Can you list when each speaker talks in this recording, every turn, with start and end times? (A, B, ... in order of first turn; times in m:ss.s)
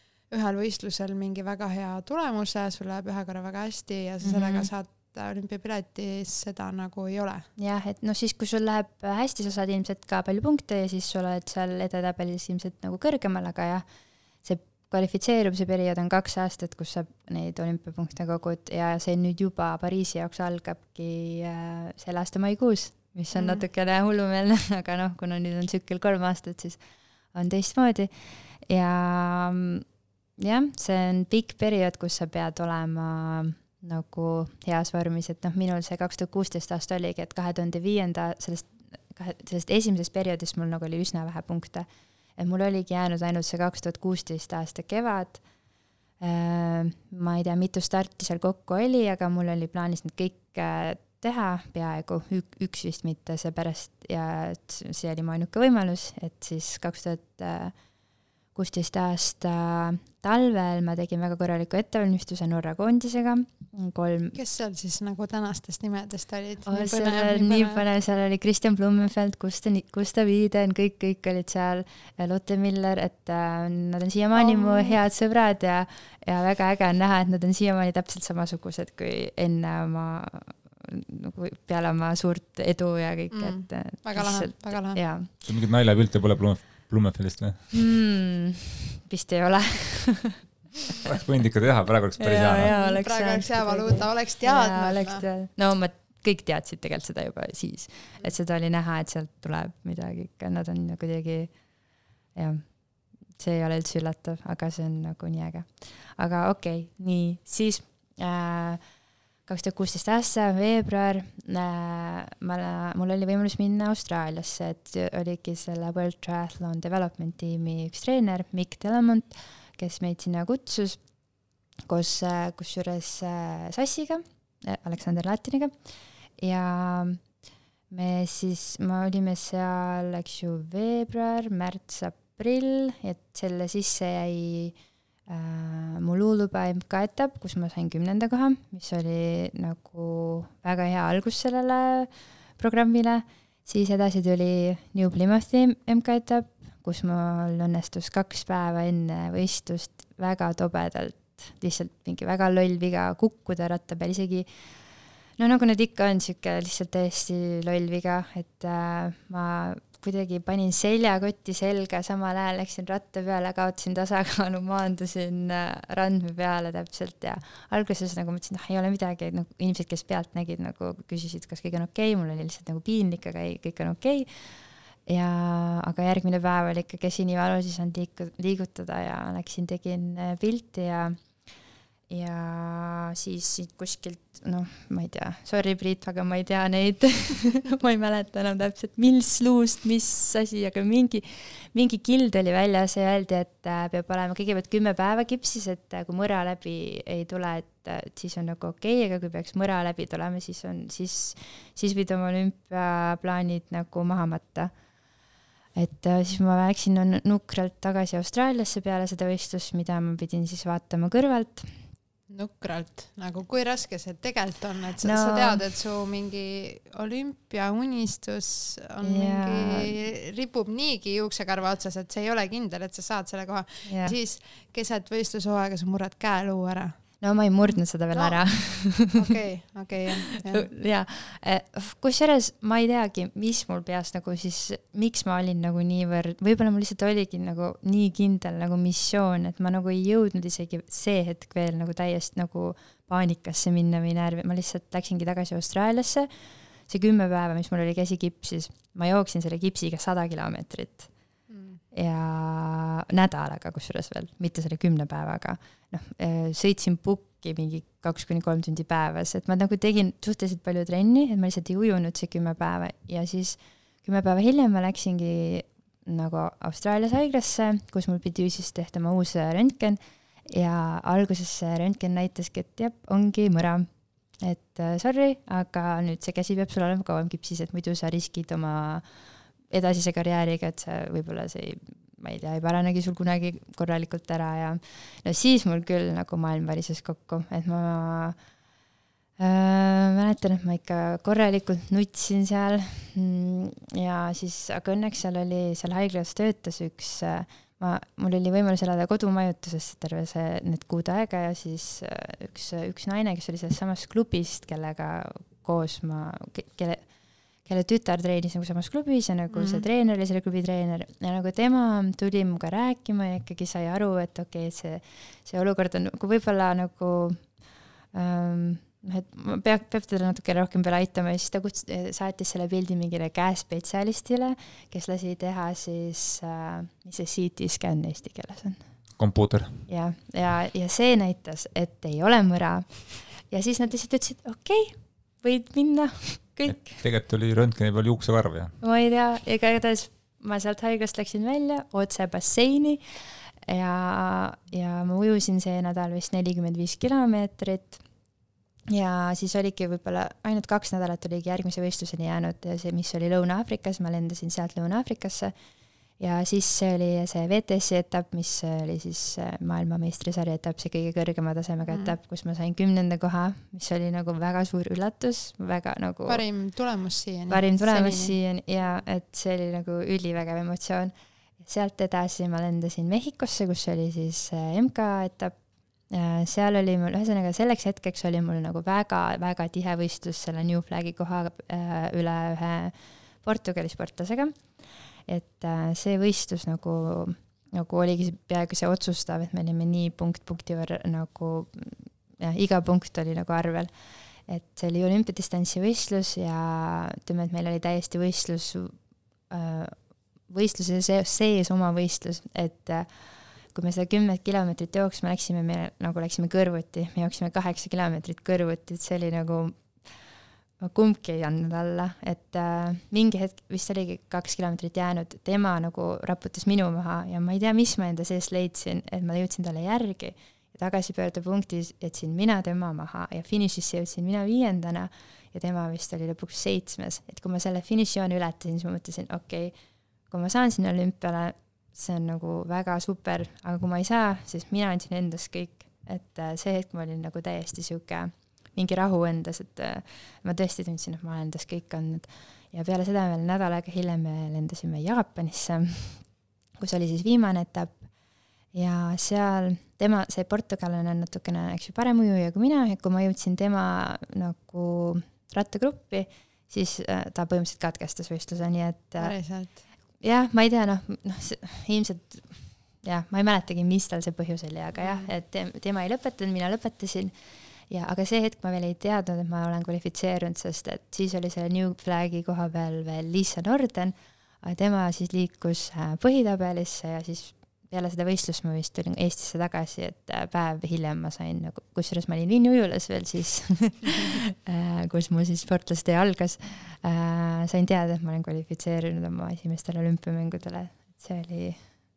0:00.3-0:07.5 A
0:04.2-0:04.7 B
0:07.6-0:13.8 B
0:14.4-0:26.8 B
0:23.3-0:23.6 A
0:27.3-0:29.8 B
0:30.4-0:45.4 B
0:46.2-0:57.7 B
0:58.5-1:04.4 B
1:04.3-1:07.8 A
1:06.7-1:25.3 B
1:14.3-1:15.0 A
1:23.3-1:25.0 A
1:25.4-1:27.7 C
1:27.7-1:30.4 B
1:31.0-1:32.7 C
1:32.2-1:41.5 B
1:32.6-1:35.2 A
1:42.3-1:48.8 B
1:49.5-2:01.0 B
2:01.9-2:07.2 B
2:07.9-2:14.8 B
2:15.3-2:34.8 B
2:35.4-3:01.2 B
3:02.1-3:24.7 B
3:25.8-3:31.8 B
3:32.3-3:50.7 A
3:35.0-3:35.6 B
3:39.0-3:39.9 B
3:43.8-3:44.2 B
3:47.2-3:49.2 B
3:50.5-4:11.1 B
4:11.5-4:11.8 A
4:11.9-4:48.4 B
4:49.4-5:07.1 B
5:07.6-5:17.6 B
5:09.5-5:09.8 A
5:18.1-5:28.8 B
5:29.2-5:29.8 C
5:29.9-5:37.0 B
5:36.7-5:38.8 C
5:38.8-5:48.0 B
5:48.9-5:55.5 B
5:56.2-6:06.4 B
6:01.9-6:02.2 A
6:06.3-6:09.1 A
6:07.5-6:15.6 B
6:16.1-6:39.0 B
6:39.5-7:09.7 B
7:10.3-7:26.3 B
7:26.8-7:28.1 B
7:28.7-8:11.9 B
7:39.2-7:39.8 A
7:45.0-7:45.3 A